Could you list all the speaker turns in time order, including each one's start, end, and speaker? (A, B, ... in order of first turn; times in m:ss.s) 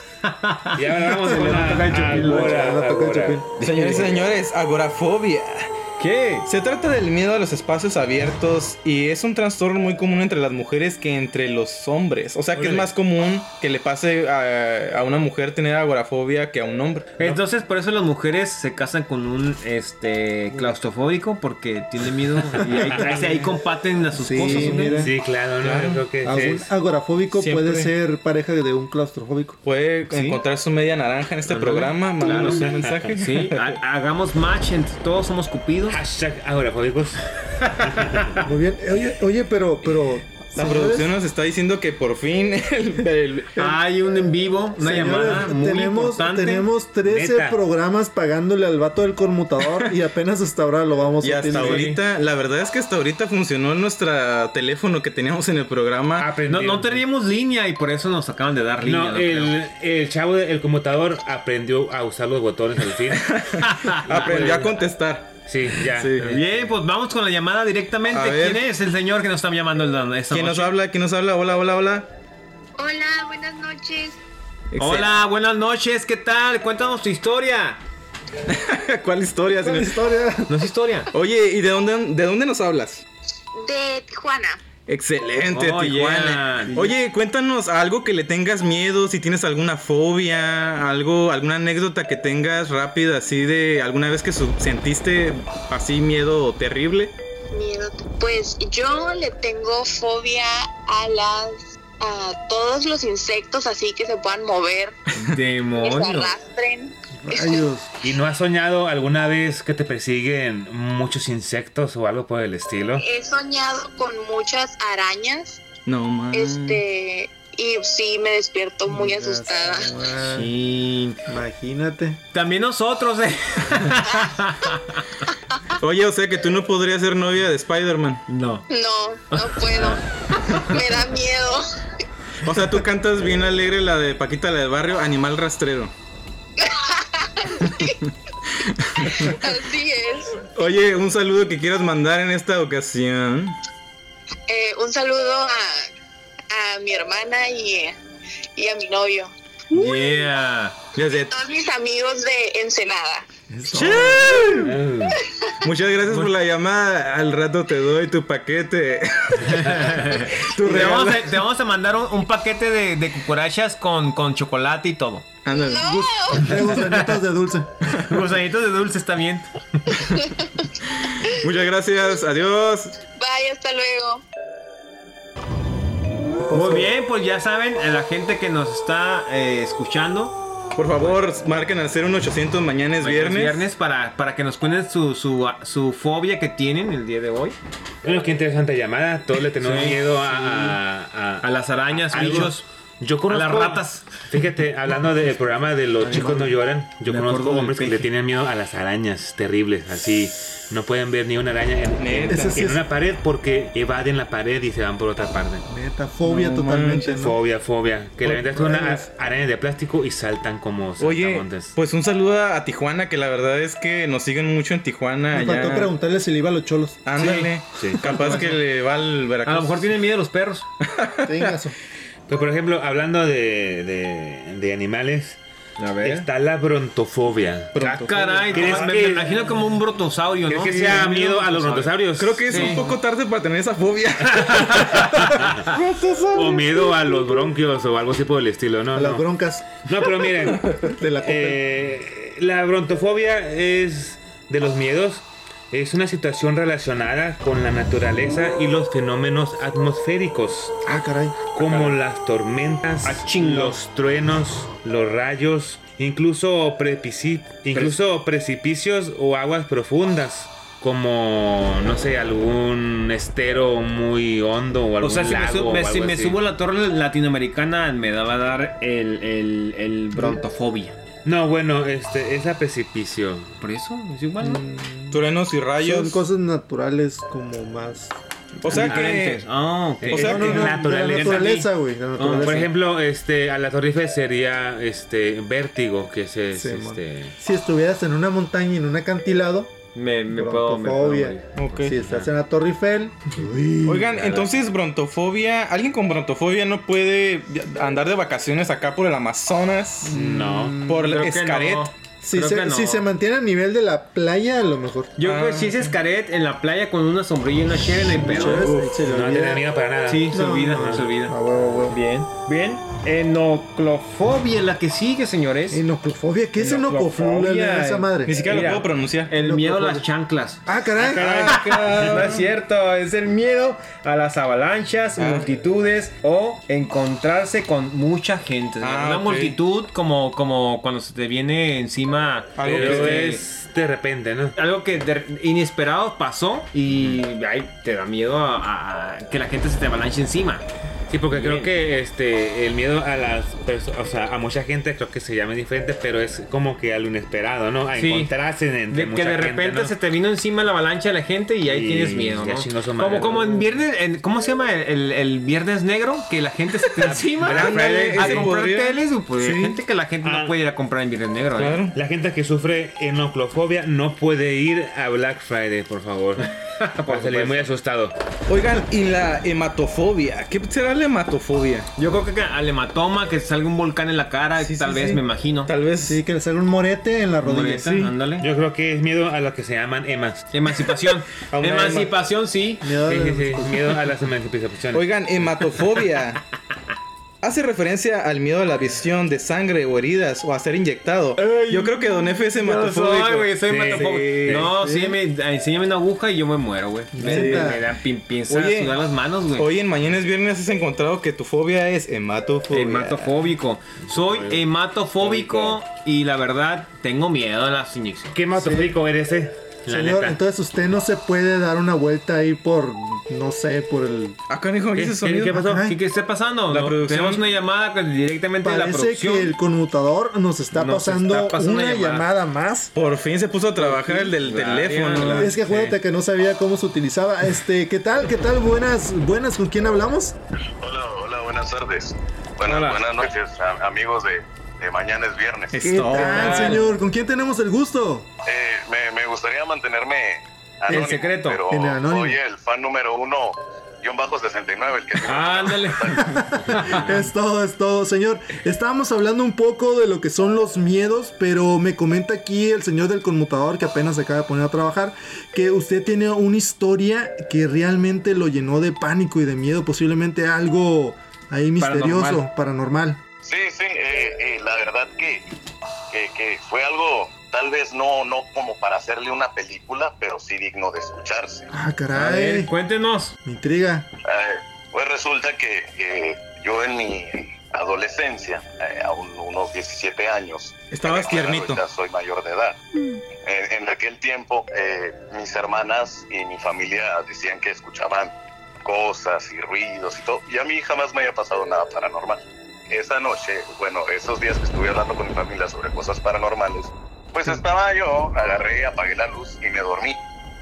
0:00.2-0:02.8 A
0:00.8-0:03.5 B
0:01.4-0:03.5 C
0:03.6-0:05.7 D
0:03.6-0:04.2 A
0:06.0-0:06.5 A
0:06.4-0:17.2 D
0:12.6-0:12.8 A
0:17.2-0:25.1 A
0:22.9-0:23.4 D
0:24.1-0:25.1 C
0:24.4-0:26.1 D
0:24.8-0:26.7 B
0:26.2-0:29.6 C
0:27.3-0:27.9 D
0:29.6-0:33.8 D
0:30.1-0:30.4 A
0:31.5-0:36.0 A
0:32.4-0:32.9 B
0:35.9-0:37.2 B
0:37.8-0:38.2 B
0:38.4-0:41.1 C
0:40.5-0:43.7 D
0:43.6-0:46.7 A
0:44.8-0:51.9 C
0:47.0-0:47.6 B
0:51.2-0:56.3 D
0:51.5-0:52.0 A
0:56.2-0:57.0 B
0:56.4-0:59.6 A
0:58.8-1:03.4 B
1:03.1-1:06.3 D
1:03.6-1:04.5 A
1:04.0-1:04.8 B
1:05.4-1:06.4 B
1:06.2-1:10.7 A
1:08.1-1:08.6 D
1:10.3-1:12.1 D
1:12.8-1:14.2 E
1:14.7-1:15.1 D
1:14.8-1:17.8 A
1:18.5-1:20.0 D
1:19.6-1:20.5 C
1:20.5-1:21.1 A
1:21.1-1:23.0 D
1:23.5-1:24.6 E
1:24.9-1:37.1 D
1:25.5-1:26.8 A
1:26.7-1:26.9 C
1:37.5-1:45.0 E
1:45.2-1:46.3 A
1:45.7-1:47.7 E
1:47.2-1:47.9 C
1:48.0-1:53.0 B
1:53.0-1:55.7 E
1:55.8-1:56.8 D
1:56.3-1:59.9 E
1:58.9-2:00.5 C
2:00.2-2:01.2 A
2:01.3-2:02.2 C
2:02.3-2:05.0 A
2:05.8-2:08.2 D
2:08.3-2:08.6 A
2:08.7-2:10.0 E
2:09.3-2:10.8 A
2:10.7-2:11.6 E
2:12.4-2:15.9 D
2:16.6-2:18.0 E
2:18.8-2:19.3 D
2:19.0-2:20.4 E
2:20.5-2:23.6 D
2:24.5-2:25.9 E
2:26.5-2:28.0 E
2:28.5-2:29.3 E
2:29.7-2:30.8 A
2:31.0-2:31.3 D
2:31.3-2:33.2 E
2:33.5-2:34.7 C
2:33.7-2:34.7 D
2:34.5-2:35.2 B
2:35.6-2:39.7 D
2:39.5-2:45.2 A
2:40.4-2:41.4 D
2:45.4-2:46.1 D
2:45.5-2:46.5 E
2:46.3-2:47.7 C
2:46.6-2:47.2 A
2:48.0-2:50.0 A
2:51.4-2:52.9 D
2:53.0-2:54.2 E
2:56.5-2:56.9 C
2:56.5-3:00.4 A
3:00.8-3:03.6 D
3:01.0-3:01.2 A
3:03.0-3:07.6 A
3:08.0-3:25.6 B
3:09.6-3:10.8 A
3:11.4-3:12.6 A
3:13.3-3:14.2 A
3:16.0-3:16.5 C
3:16.0-3:16.4 A
3:17.0-3:18.0 A
3:22.0-3:22.8 D
3:22.3-3:22.8 C
3:25.7-3:27.4 C
3:26.2-3:27.2 D
3:27.1-3:31.8 B
3:28.2-3:28.9 D
3:28.5-3:29.0 C
3:31.0-3:35.9 D
3:35.3-3:37.0 C
3:37.0-3:39.9 D
3:37.2-3:37.5 A
3:37.7-3:38.0 B
3:38.0-3:38.5 A
3:39.4-3:40.6 A
3:40.8-3:41.5 D
3:41.2-3:41.7 C
3:42.3-3:45.4 B
3:45.8-3:46.3 A
3:46.0-3:47.9 B
3:47.7-3:49.2 D
3:47.8-3:52.9 A
3:48.5-3:49.4 B
3:50.5-3:52.8 B
3:50.7-3:51.1 D
3:52.1-3:57.5 D
3:54.2-3:55.6 A
3:56.3-4:00.7 B
3:58.9-3:59.7 C
4:00.4-4:01.5 D
4:01.2-4:10.8 B
4:10.8-4:11.4 C
4:11.5-4:26.4 B
4:11.6-4:12.0 A
4:13.0-4:13.8 A
4:25.0-4:31.0 A
4:30.1-4:30.4 C
4:31.2-4:33.5 B
4:33.6-4:34.6 A
4:34.4-4:35.2 C
4:35.1-4:36.2 D
4:35.8-4:38.1 C
4:38.6-4:39.4 D
4:38.6-4:39.1 C
4:38.6-4:42.7 A
4:40.1-4:42.7 C
4:40.1-4:40.8 D
4:40.2-4:41.6 B
4:42.3-4:47.3 B
4:46.5-4:49.8 C
4:49.9-4:51.9 A
4:50.3-4:54.3 C
4:51.5-4:52.0 D
4:53.8-5:00.2 D
5:00.1-5:01.0 C
5:00.1-5:00.8 B
5:00.8-5:01.9 D
5:00.9-5:03.0 A
5:02.2-5:05.1 C
5:05.2-5:08.8 A
5:05.2-5:05.9 D
5:08.2-5:09.0 D
5:08.2-5:09.6 C
5:09.0-5:11.0 B
5:10.1-5:11.4 A
5:10.3-5:12.0 C
5:11.9-5:15.8 A
5:15.7-5:18.3 C
5:16.6-5:33.4 A
5:18.2-5:19.3 D
5:19.4-5:20.0 C
5:20.6-5:21.6 C
5:21.0-5:22.5 D
5:25.2-5:25.4 D
5:28.8-5:29.6 D
5:32.6-5:33.3 D
5:32.6-5:34.6 B
5:34.6-5:40.6 A
5:36.9-5:37.2 B
5:41.1-5:49.9 B
5:41.3-5:41.7 A
5:47.9-5:48.3 A
5:48.9-6:01.8 A
5:51.7-5:53.7 B
5:57.0-5:58.6 B
5:57.0-5:59.8 D
6:00.2-6:00.5 B
6:01.6-6:02.0 D
6:01.9-6:06.5 B
6:06.8-6:07.7 A
6:07.1-6:08.1 B
6:08.5-6:11.9 D
6:12.0-6:15.7 A
6:14.6-6:16.2 D
6:16.1-6:18.1 C
6:17.4-6:18.4 A
6:18.4-6:20.4 B
6:20.5-6:22.9 A
6:21.5-6:22.1 D
6:22.8-6:24.0 C
6:23.0-6:25.1 B
6:24.9-6:26.4 D
6:27.4-6:34.7 D
6:31.4-6:39.7 A
6:33.6-6:34.7 B
6:34.6-6:35.2 C
6:37.1-6:37.8 C
6:37.2-6:37.8 D
6:38.5-6:39.0 D
6:39.6-6:43.3 D
6:42.7-6:48.3 A
6:44.1-6:44.6 B
6:45.2-6:45.8 B
6:48.3-6:50.4 B
6:48.5-6:48.9 C
6:49.9-6:54.4 C
6:54.5-6:55.6 D
6:54.9-6:55.8 B
6:55.5-6:56.0 C
6:55.8-6:59.5 A
6:56.7-6:57.4 D
6:58.6-7:02.9 C
7:00.7-7:02.3 A
7:02.9-7:05.5 D
7:03.8-7:05.5 A
7:05.4-7:10.3 C
7:05.6-7:05.9 B
7:10.8-7:15.8 F
7:12.7-7:13.0 A
7:15.7-7:16.8 D
7:15.8-7:18.3 C
7:16.1-7:16.9 A
7:18.4-7:26.3 F
7:20.9-7:21.6 A
7:20.9-7:22.4 C
7:25.2-7:27.0 A
7:26.3-7:43.2 C
7:41.8-7:42.4 A
7:43.4-7:45.5 F
7:46.1-7:51.6 F
7:51.7-7:52.7 C
7:52.1-7:53.3 A
7:53.4-7:54.1 C
7:54.2-8:02.8 F
8:00.9-8:01.8 D
8:03.4-8:20.2 F